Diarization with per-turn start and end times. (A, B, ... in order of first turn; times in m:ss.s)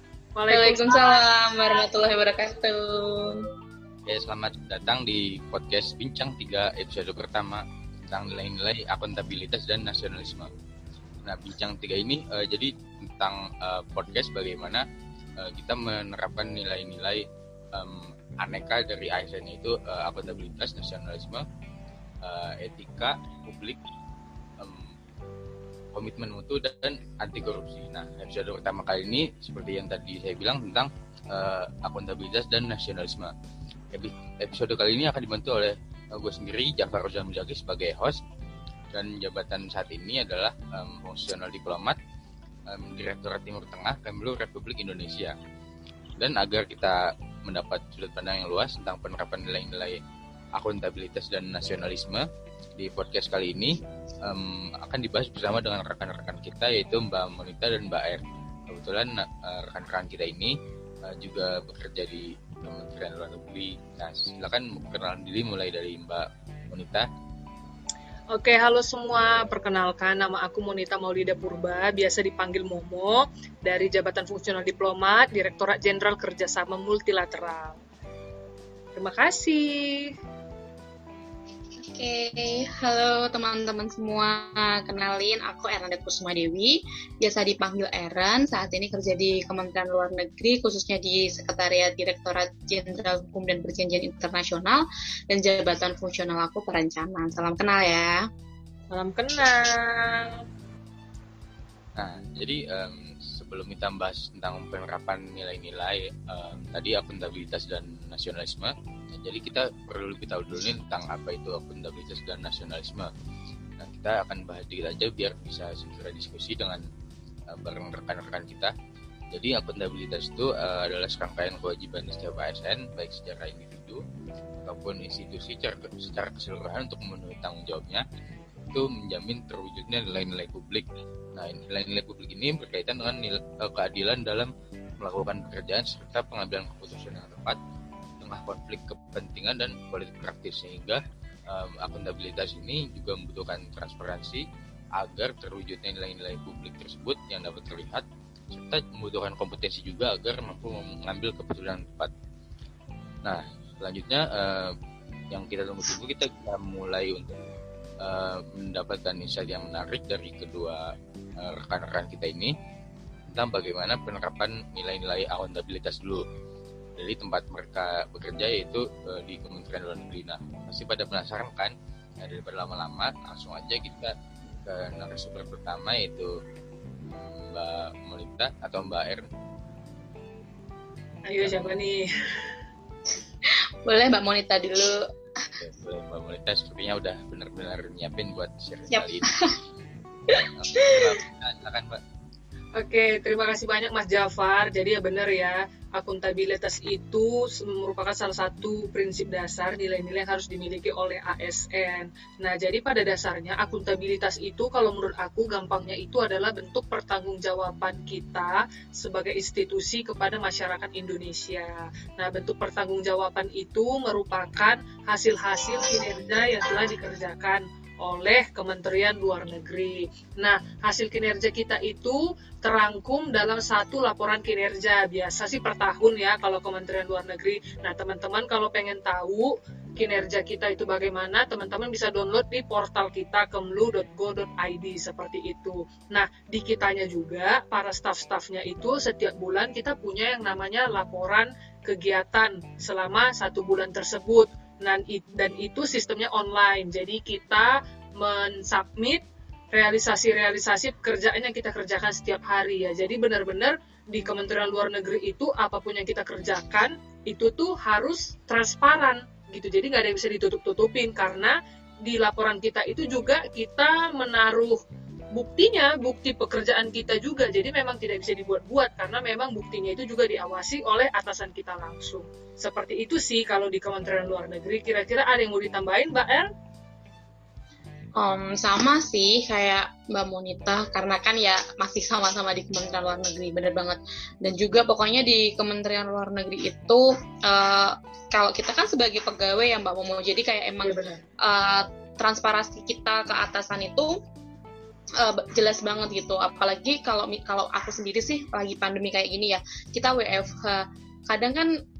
0:00.4-0:01.2 A
0:00.5-0:03.4 B
0:04.1-0:10.5 C
0:11.2-0:14.8 C
0:15.4-0:21.4 C
0:22.2-0:23.8 C
0:24.6-0:24.9 C
0:25.9-0:33.3 C
0:33.9-0:38.2 C
0:38.9-0:42.0 C
0:42.7-0:45.4 C
0:46.2-0:50.0 C
0:50.6-0:52.2 C
0:52.8-1:00.5 C
1:01.0-1:07.0 C
1:08.3-1:17.8 A
1:19.0-1:20.1 A
1:21.8-1:38.2 B
1:38.9-1:40.4 A
1:42.0-1:53.1 C
1:53.8-1:56.8 C
1:57.5-1:58.7 C
1:59.3-2:04.0 C
2:04.6-2:08.0 C
2:08.7-2:17.6 C
2:18.2-2:24.4 C
2:25.0-2:32.1 C
2:33.2-2:34.7 C
2:35.3-2:37.3 C
2:38.0-2:42.5 C
2:43.3-2:46.2 C
2:47.0-2:54.1 C
2:54.6-2:56.4 C
2:57.1-2:59.2 C
3:01.3-3:02.5 A
3:03.4-3:05.0 B
3:05.6-3:09.4 C
3:08.9-3:09.5 B
3:10.3-3:11.1 B
3:10.5-3:12.0 C
3:12.8-4:24.8 A
4:25.3-4:36.5 A
4:38.2-4:54.1 B
4:50.8-4:51.2 A
4:55.2-5:01.7 B